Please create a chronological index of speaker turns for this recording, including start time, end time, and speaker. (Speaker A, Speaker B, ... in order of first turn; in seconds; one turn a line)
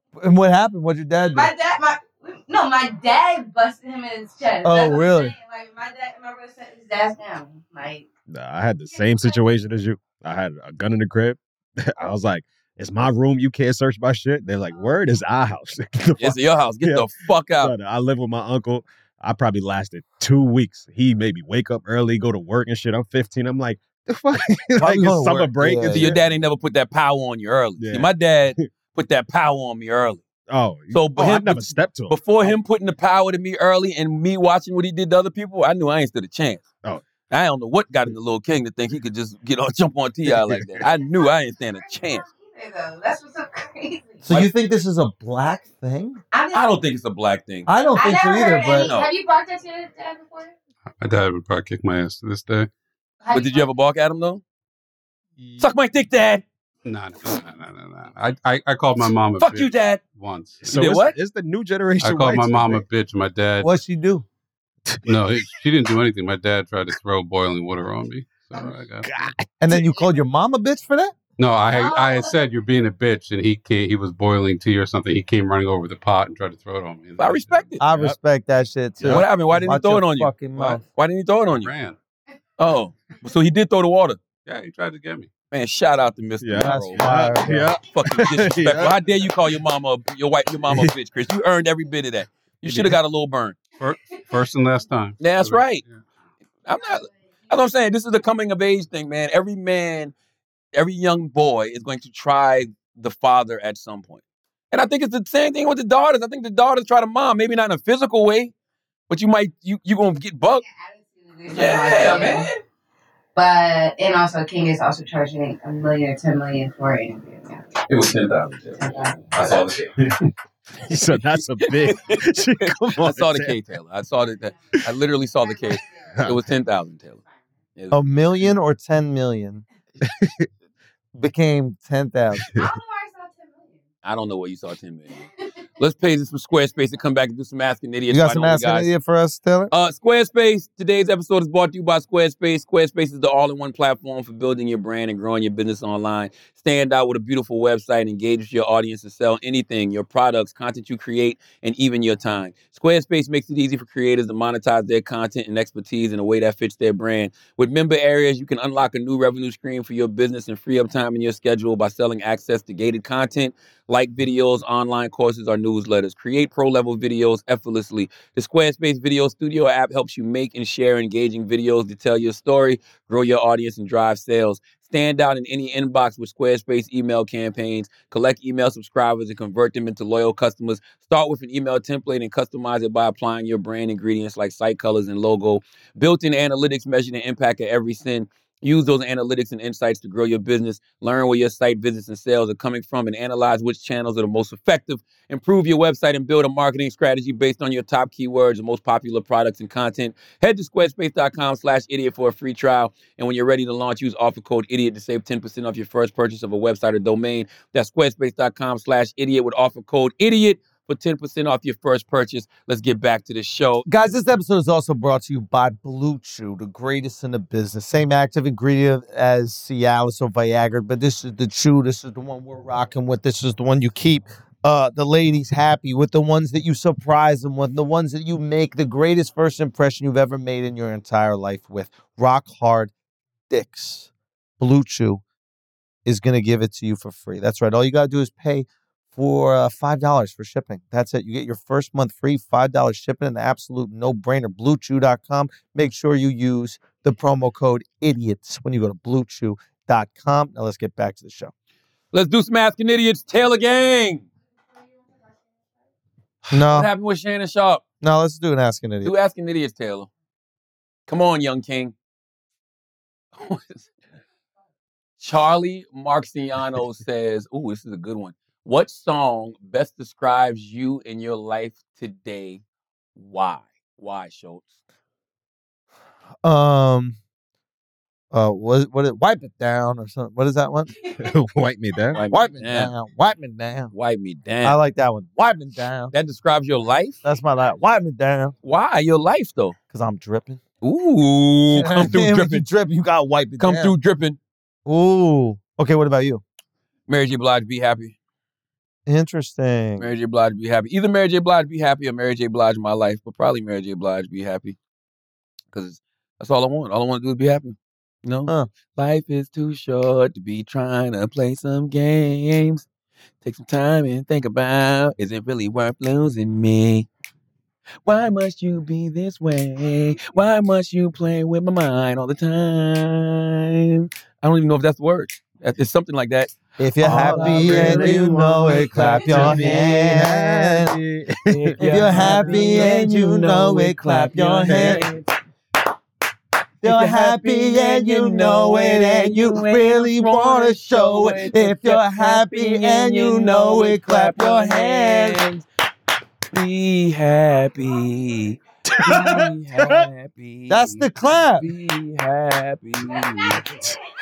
Speaker A: 0.2-1.5
Speaker B: 1.3-8.1
Speaker A: 4.6-5.3
Speaker C: 8.3-26.2
Speaker B: 8.8-9.4
Speaker D: 16.2-17.7
Speaker A: 24.8-26.1
Speaker D: 25.9-30.2
Speaker C: 27.8-28.6
Speaker C: 30.5-32.6
Speaker D: 30.9-36.6
Speaker D: 37.3-42.2
Speaker C: 40.3-40.6
Speaker B: 40.8-44.2
Speaker A: 44.2-46.2
Speaker B: 46.3-46.7
Speaker D: 46.5-47.7
Speaker A: 47.7-48.9
Speaker B: 47.9-50.5
Speaker D: 48.8-49.1
Speaker E: 51.0-52.7
Speaker B: 53.2-53.7
Speaker D: 53.3-54.4
Speaker E: 55.4-55.7
Speaker D: 55.6-56.4
Speaker E: 56.9-60.8
Speaker D: 59.4-60.0
Speaker C: 60.6-62.8
Speaker D: 60.7-61.1
Speaker E: 62.0-63.7
Speaker A: 63.6-64.2
Speaker C: 64.9-65.5
Speaker E: 65.0-69.1
Speaker C: 68.5-69.9
Speaker A: 69.6-71.1
Speaker E: 71.4-77.6
Speaker B: 71.7-72.4
Speaker D: 77.2-77.8
Speaker A: 77.8-80.8
Speaker C: 77.9-78.2
Speaker D: 79.0-81.7
Speaker E: 81.6-82.0
Speaker D: 82.6-84.2
Speaker E: 84.4-85.3
Speaker D: 85.5-87.0
Speaker C: 86.4-89.3
Speaker A: 86.6-87.7
Speaker D: 87.8-93.6
Speaker C: 90.6-90.9
Speaker E: 93.8-96.0
Speaker D: 95.2-95.8
Speaker D: 96.7-100.1
Speaker B: 96.8-97.2
Speaker D: 100.7-108.5
Speaker D: 109.1-110.6
Speaker B: 110.6-112.5
Speaker D: 111.5-112.5
Speaker B: 113.3-117.7
Speaker D: 117.9-120.2
Speaker B: 118.8-119.5
Speaker C: 120.8-123.6
Speaker D: 121.1-127.2
Speaker B: 125.3-126.2
Speaker C: 126.1-126.4
Speaker D: 127.8-128.1
Speaker A: 127.9-129.6
Speaker C: 130.0-130.4
Speaker A: 131.1-132.4
Speaker B: 132.5-133.8
Speaker D: 134.0-135.2
Speaker D: 135.8-138.9
Speaker A: 138.1-139.7
Speaker D: 139.7-213.9
Speaker A: 213.8-232.9
Speaker A: 233.5-235.2
Speaker A: 236.1-251.5
Speaker D: 252.1-254.2
Speaker D: 256.4-257.8
Speaker A: 256.5-256.9
Speaker A: 258.0-259.1
Speaker D: 259.0-260.1
Speaker D: 261.1-261.9
Speaker D: 263.3-263.9
Speaker D: 265.2-272.6
Speaker D: 273.1-274.7
Speaker A: 276.4-277.2
Speaker A: 278.3-280.9
Speaker C: 281.1-282.2
Speaker D: 282.1-282.9
Speaker A: 282.2-283.9
Speaker D: 283.9-284.8
Speaker A: 284.6-286.1
Speaker D: 286.1-287.2
Speaker A: 287.2-288.6
Speaker D: 288.6-289.8
Speaker A: 289.9-290.6
Speaker D: 290.8-292.6
Speaker A: 291.7-293.9
Speaker D: 293.6-294.4
Speaker A: 294.9-296.4
Speaker D: 297.1-298.1
Speaker A: 299.1-300.1
Speaker D: 300.0-304.8
Speaker D: 305.7-312.9
Speaker D: 313.4-317.1
Speaker D: 318.0-330.2
Speaker A: 326.8-330.9
Speaker C: 327.1-332.3
Speaker D: 331.5-335.3
Speaker A: 331.8-335.0
Speaker C: 334.7-335.0
Speaker A: 336.8-345.4
Speaker D: 336.8-345.6
Speaker D: 346.5-353.6
Speaker C: 348.9-349.9
Speaker A: 350.7-351.7
Speaker C: 353.7-354.0